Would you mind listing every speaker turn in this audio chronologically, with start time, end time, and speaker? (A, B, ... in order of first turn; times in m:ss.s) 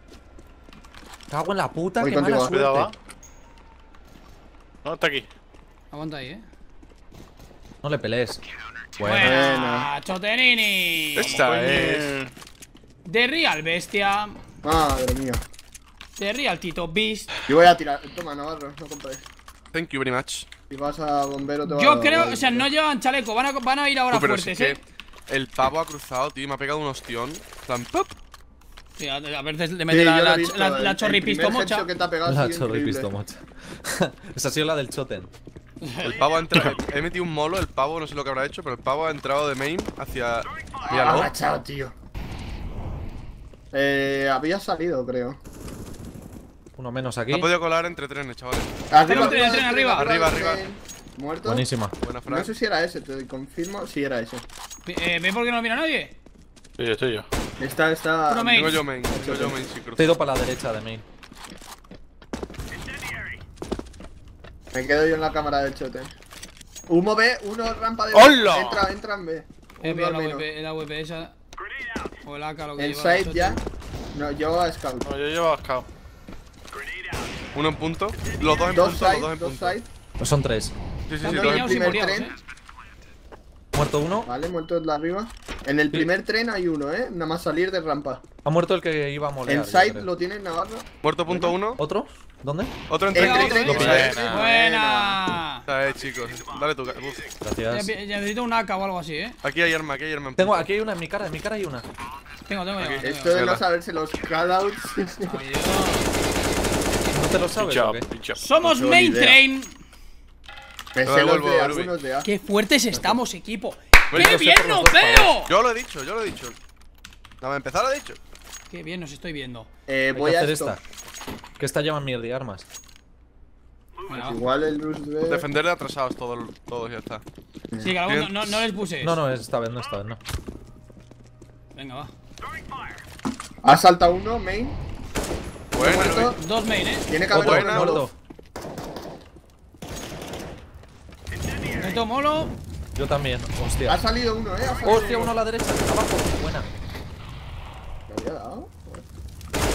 0:01.3-0:02.6 A
0:02.0-0:02.9 B
0:02.5-0:02.9 C
0:04.8-0:05.3 C
0:05.9-0:06.4 D
0:07.8-0:08.4 A
0:09.0-0:09.4 A
0:09.0-0:11.4 D
0:09.2-0:09.9 B
0:11.2-0:12.1 E
0:11.2-0:12.3 C
0:13.1-0:14.4 D
0:14.6-0:15.4 B
0:16.2-0:17.3 D
0:17.5-0:19.2 B
0:19.7-0:20.5 E
0:20.7-0:22.7 B
0:21.7-0:24.8 D
0:24.1-0:28.1 E
0:29.0-0:31.9 D
0:29.9-0:33.1 B
0:32.2-0:35.3 A
0:35.8-0:36.2 D
0:36.1-0:41.3 E
0:40.9-0:41.9 B
0:43.7-0:45.4 B
0:46.8-0:47.5 A
0:47.3-0:50.6 E
0:48.9-0:51.7 B
0:49.1-0:50.1 D
0:51.4-0:51.9 A
0:52.0-0:52.5 E
0:52.3-0:54.4 B
0:54.9-0:56.1 D
0:56.8-0:57.3 C
0:57.6-0:59.6 B
0:58.3-0:58.8 D
0:58.5-1:00.1 E
1:00.0-1:01.0 A
1:04.7-1:06.1 B
1:06.9-1:10.5 B
1:08.1-1:08.9 C
1:09.8-1:11.3 D
1:12.2-1:13.6 D
1:12.8-1:13.6 B
1:14.1-1:15.1 B
1:15.1-1:15.9 C
1:17.5-1:19.8 E
1:18.7-1:19.9 B
1:20.2-1:20.7 A
1:21.1-1:22.0 E
1:21.2-1:22.3 B
1:21.2-1:22.4 D
1:23.7-1:24.3 A
1:24.3-1:28.2 B
1:28.4-1:30.1 A
1:29.5-1:31.5 B
1:31.0-1:31.8 E
1:31.8-1:32.7 A
1:32.9-1:34.2 E
1:33.1-1:35.2 B
1:33.2-1:35.7 D
1:33.4-1:34.1 A
1:33.8-1:34.4 C
1:35.7-1:37.2 E
1:37.4-1:37.9 A
1:37.7-1:39.4 D
1:39.4-1:40.7 E
1:40.4-1:41.9 A
1:42.5-1:43.4 D
1:42.8-1:43.6 E
1:43.0-1:45.4 B
1:45.3-1:46.1 D
1:47.1-1:48.1 A
1:47.6-1:48.4 C
1:48.4-1:49.8 D
1:48.6-1:49.4 B
1:51.0-1:52.3 B
1:51.0-1:51.9 E
1:52.2-1:55.5 D
1:52.9-1:53.2 B
1:54.1-1:54.4 E
1:54.1-1:55.4 A
1:55.5-1:56.6 E
1:57.4-1:58.2 E
1:58.7-1:59.7 D
1:59.9-2:00.8 B
2:00.1-2:00.8 A
2:01.6-2:02.7 A
2:04.1-2:04.4 D
2:04.1-2:05.4 B
2:05.3-2:07.2 E
2:07.8-2:09.2 D
2:08.0-2:08.6 E
2:09.0-2:10.2 A
2:11.8-2:12.1 D
2:13.6-2:14.8 B
2:15.7-2:16.4 E
2:15.8-2:16.4 B
2:16.4-2:17.1 D
2:17.1-2:18.1 B
2:17.3-2:18.0 E
2:17.3-2:18.1 A
2:21.8-2:22.5 D
2:23.0-2:24.0 A
2:23.9-2:25.4 B
2:24.8-2:26.7 A
2:28.1-2:29.0 B